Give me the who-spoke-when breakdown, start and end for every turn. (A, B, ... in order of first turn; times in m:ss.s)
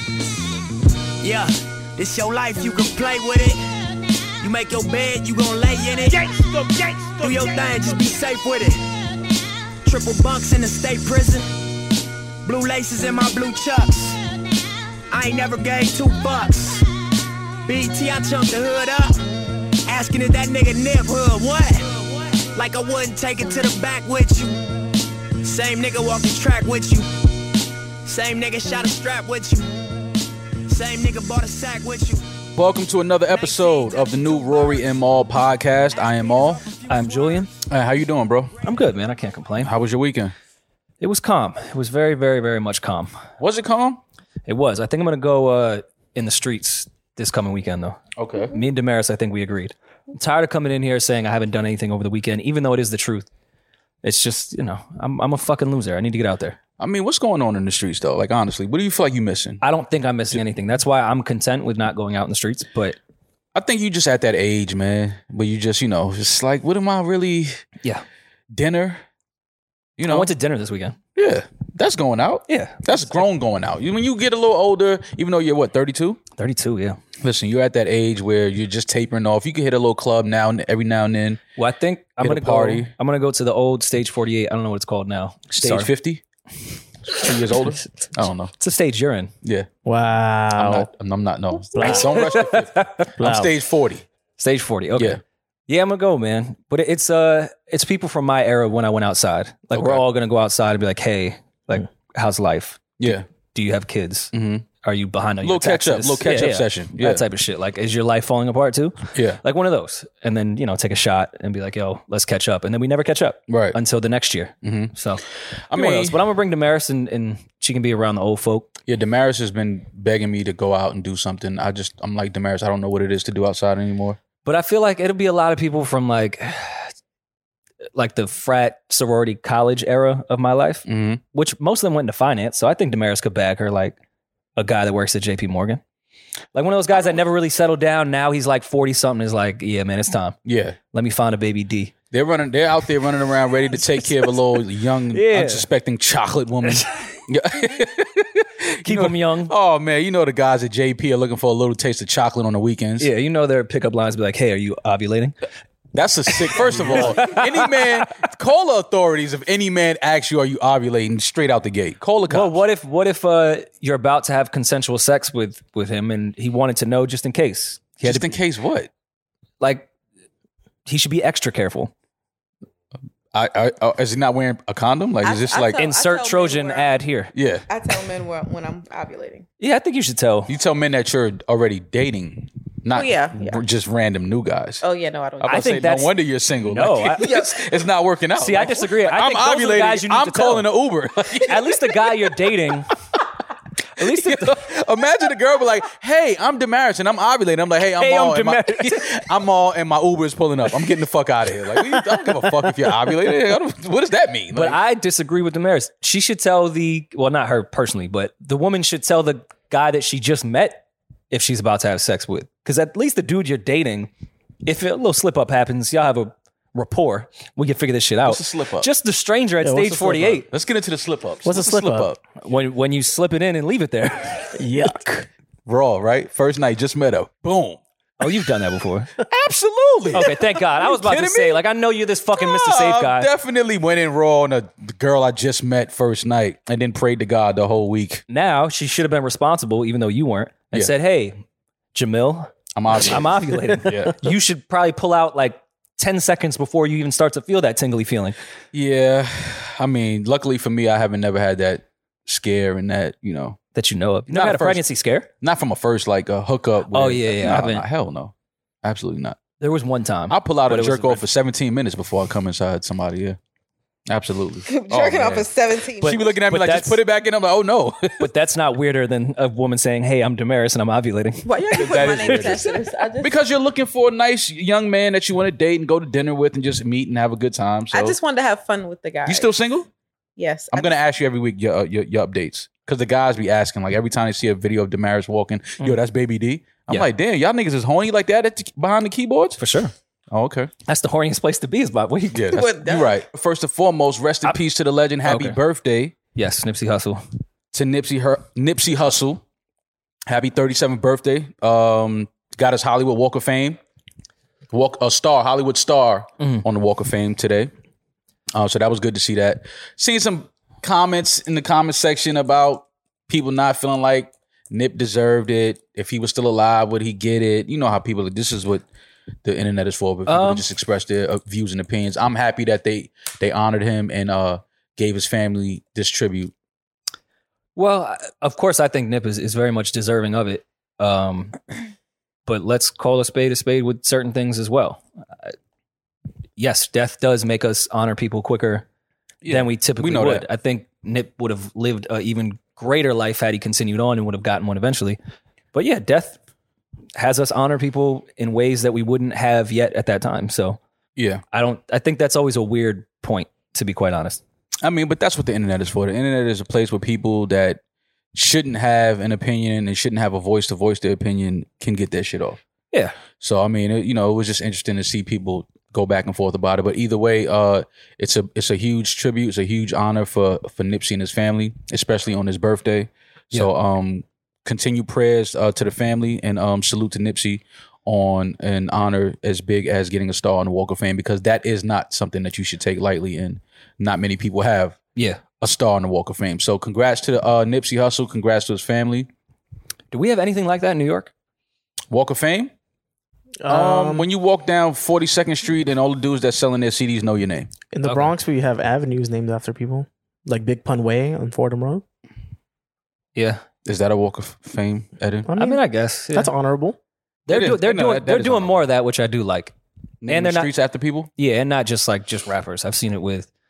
0:01.2-0:03.6 A
0:04.4-0:08.8 A
0:09.8-0:11.5 A
0:12.4-0:14.2 A
0:15.1-0:16.9 A
0:17.6-0:19.2 A
0:19.9-0:24.6 A
0:25.4-0:27.1 A
0:28.0-0:29.8 A
0:30.7-0:32.3 A
0:32.6-0:36.6 B
0:33.3-0:34.9 A
0:36.0-0:37.5 A
0:36.9-0:37.5 C
0:37.7-0:38.6 B
0:38.6-0:39.7 C
0:39.6-0:40.3 B
0:41.0-0:43.2 C
0:43.4-0:44.0 B
0:44.5-0:53.3 C
0:48.2-0:48.5 B
0:54.0-0:56.6 C
0:56.8-0:59.6 B
0:59.6-1:03.0 C
1:03.5-1:07.6 B
1:08.5-1:09.0 B
1:10.0-1:10.3 B
1:10.0-1:11.0 C
1:11.2-1:16.2 B
1:12.5-1:13.1 C
1:16.4-1:17.0 C
1:17.2-1:21.4 B
1:21.6-1:25.9 C
1:22.2-1:22.9 B
1:25.6-1:26.2 B
1:27.0-1:28.5 B
1:28.6-1:29.3 C
1:29.4-1:29.7 B
1:29.9-1:30.9 D
1:30.6-1:34.0 B
1:31.7-1:32.4 D
1:31.8-1:33.1 C
1:33.2-1:33.5 D
1:34.4-1:55.2 C
1:39.7-1:40.0 B
1:43.0-1:43.3 B
1:44.3-1:44.7 B
1:45.4-1:47.2 B
1:49.2-1:49.4 B
1:53.5-1:53.8 B
1:54.6-1:54.9 B
1:55.7-1:56.2 B
1:55.7-1:58.7 C
1:58.9-2:04.2 B
2:04.4-2:06.9 C
2:08.0-2:14.0 C
2:10.9-2:11.2 B
2:14.6-2:15.8 C
2:16.5-2:20.4 C
2:20.4-2:20.8 B
2:20.9-2:21.9 C
2:22.1-2:33.1 B
2:25.1-2:25.7 C
2:28.8-2:29.5 C
2:33.0-2:35.4 C
2:35.9-2:42.6 B
2:36.3-2:38.0 C
2:42.3-2:48.3 C
2:48.0-2:48.9 B
2:49.6-2:49.9 C
2:50.9-2:51.9 C
2:53.3-2:55.8 B
2:55.2-2:57.0 E
2:55.8-2:57.3 C
2:57.3-2:57.6 B
2:57.7-2:59.5 E
2:59.6-3:00.5 C
3:00.5-3:04.8 B
3:02.9-3:03.6 E
3:04.8-3:05.8 E
3:05.4-3:12.0 B
3:05.5-3:07.4 C
3:08.4-3:10.7 C
3:11.5-3:12.9 C
3:14.0-3:14.5 C
3:14.0-3:24.8 B
3:18.0-3:19.2 C
3:24.5-3:34.1 C
3:34.6-3:40.5 C
3:38.3-3:38.9 B
3:39.6-3:40.5 D
3:40.5-3:42.2 B
3:41.4-3:42.1 D
3:42.4-3:44.6 C
3:44.6-3:45.3 D
3:45.7-3:47.8 B
3:48.2-3:49.1 C
3:49.3-3:51.6 B
3:50.1-3:53.3 C
3:52.3-3:58.2 B
3:58.3-4:01.4 C
4:01.9-4:02.5 C
4:02.8-4:04.3 B
4:03.1-4:08.4 C
4:08.7-4:13.6 B
4:13.8-4:15.3 C
4:14.3-4:14.9 B
4:15.4-4:19.4 B
4:16.9-4:17.8 C
4:19.6-4:21.2 C
4:20.3-4:23.4 B
4:24.1-4:25.5 B
4:24.7-4:26.4 E
4:26.0-4:27.0 C
4:26.0-4:28.3 B
4:28.2-4:32.6 C
4:31.4-4:33.4 E
4:31.7-4:38.2 B
4:37.9-4:39.5 E
4:39.3-4:39.9 B
4:40.4-4:40.9 E
4:40.7-4:49.6 B
4:49.6-4:49.9 C
4:50.3-4:50.7 B
4:50.9-4:52.6 C
4:52.3-4:56.1 B
4:52.5-4:53.1 E
4:55.2-4:55.6 C
4:56.4-4:57.2 C
4:57.7-4:59.4 B
5:00.3-5:03.8 B
5:04.7-5:07.7 B
5:06.4-5:06.6 C
5:08.5-5:18.8 B
5:19.4-5:26.5 B
5:20.3-5:20.7 C
5:27.8-5:31.6 C
5:32.5-5:35.5 C
5:36.6-5:38.8 C
5:39.4-5:40.5 B
5:39.5-5:45.2 C
5:45.7-5:46.4 C
5:47.2-5:50.8 C
5:51.2-5:51.4 B
5:51.5-5:54.4 C
5:54.8-5:57.8 B
5:58.3-6:02.6 B
6:03.4-6:25.0 B
6:25.2-6:25.4 C
6:25.6-6:29.3 B
6:30.1-6:31.3 C
6:32.1-6:32.7 B
6:33.6-6:34.3 D
6:33.7-6:37.7 B
6:37.9-6:42.0 D
6:38.0-6:38.3 C
6:43.4-6:43.6 C
6:43.8-6:45.5 B
6:45.5-6:47.0 D
6:45.6-6:46.5 C
6:47.5-6:49.7 C
6:47.5-6:48.8 B
6:50.2-6:51.3 B
6:50.3-6:50.7 C
6:51.4-6:53.5 C